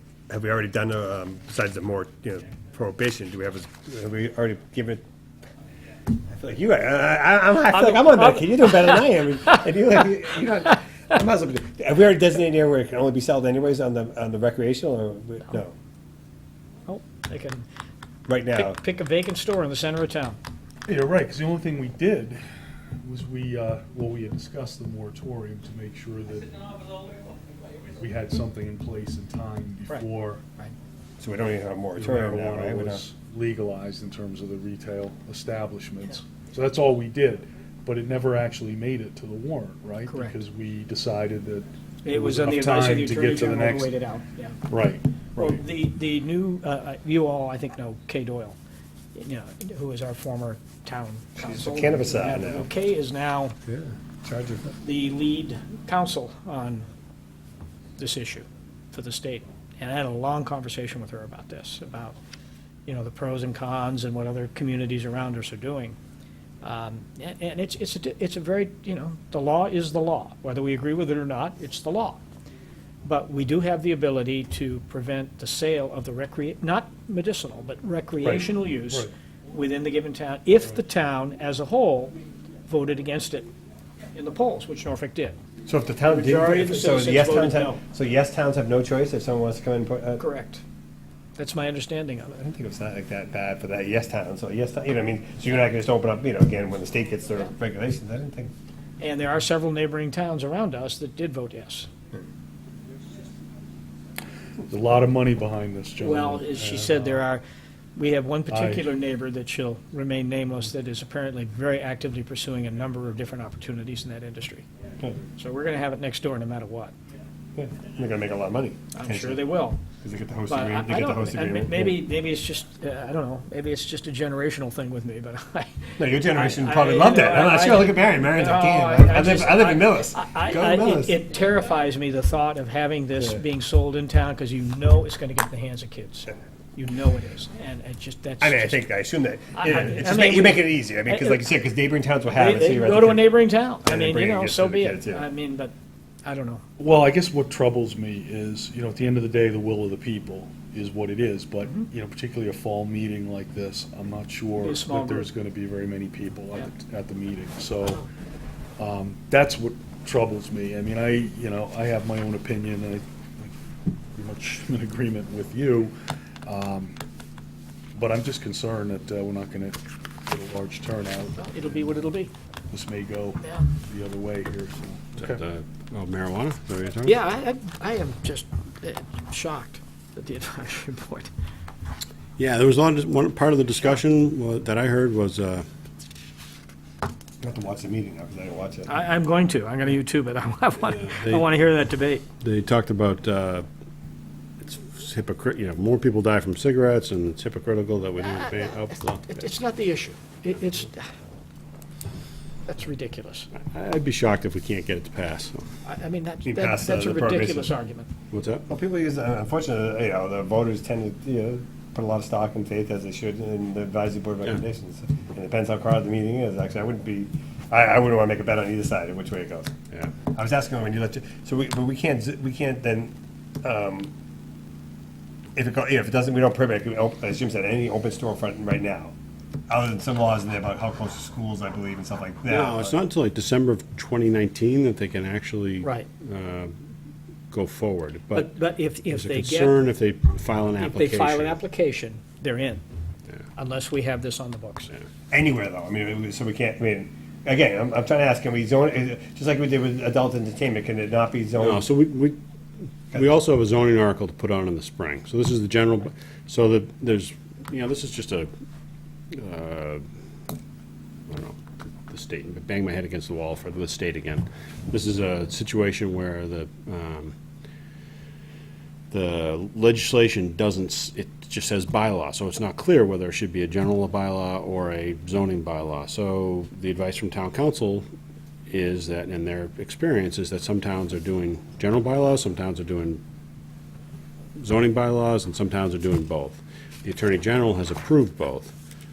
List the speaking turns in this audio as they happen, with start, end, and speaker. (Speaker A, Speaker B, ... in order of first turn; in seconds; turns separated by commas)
Speaker A: 0.3-5.0, Speaker A: 6.3-15.7, Speaker B: 7.7-9.0, Speaker B: 16.9-17.6, Speaker A: 18.3-18.8, Speaker B: 18.5-20.4, Speaker C: 20.9-22.4, Speaker C: 23.0-26.7, Speaker C: 28.0-30.4, Speaker A: 31.2-33.0, Speaker C: 31.9-43.9, Speaker B: 40.1-40.3, Speaker B: 42.0-44.6, Speaker C: 44.7-45.6, Speaker B: 45.4-48.5, Speaker B: 49.1-53.5, Speaker A: 51.4-52.7, Speaker A: 53.7-54.8, Speaker B: 54.8-56.9, Speaker B: 58.0-62.2, Speaker B: 62.9-66.0, Speaker B: 66.6-72.2, Speaker B: 73.0-83.5, Speaker C: 78.2-79.1, Speaker B: 84.1-85.4, Speaker A: 85.7-90.2, Speaker B: 86.1-87.8, Speaker B: 90.2-90.6, Speaker B: 91.4-92.3, Speaker A: 92.3-98.5, Speaker B: 99.0-101.9, Speaker C: 104.6-107.2, Speaker B: 106.0-107.4, Speaker B: 108.0-114.7, Speaker C: 108.5-108.9, Speaker B: 115.3-116.9, Speaker A: 117.5-119.4, Speaker B: 118.9-119.8, Speaker A: 120.0-122.0, Speaker B: 120.5-138.8, Speaker A: 126.0-131.2, Speaker A: 138.4-145.3, Speaker B: 139.6-141.4, Speaker B: 142.3-145.7, Speaker B: 146.2-146.6, Speaker C: 146.8-158.0, Speaker B: 154.6-155.3, Speaker C: 158.8-163.5, Speaker C: 164.1-165.9, Speaker C: 166.4-167.0, Speaker C: 167.9-171.9, Speaker B: 171.3-172.3, Speaker C: 172.7-175.4, Speaker B: 173.4-173.7, Speaker D: 175.2-177.2, Speaker B: 177.0-181.3, Speaker D: 182.4-185.6, Speaker A: 187.4-188.9, Speaker B: 188.9-192.2, Speaker D: 191.0-191.4, Speaker D: 192.4-193.6, Speaker D: 194.6-199.3, Speaker B: 198.3-198.7, Speaker B: 199.3-201.1, Speaker B: 202.7-203.5, Speaker D: 203.5-205.6, Speaker B: 205.8-208.1, Speaker A: 206.4-207.7, Speaker D: 208.3-208.7, Speaker A: 208.7-219.7, Speaker A: 220.3-224.1, Speaker A: 225.6-229.1, Speaker A: 229.7-232.9, Speaker D: 232.5-236.7, Speaker D: 237.5-241.6, Speaker B: 238.3-239.7, Speaker B: 240.8-242.8, Speaker B: 243.6-244.9, Speaker A: 245.3-251.9, Speaker D: 251.6-252.4, Speaker D: 253.1-258.5, Speaker D: 259.3-260.0, Speaker D: 261.3-267.3, Speaker D: 269.1-278.1, Speaker D: 278.7-283.2, Speaker D: 284.6-288.7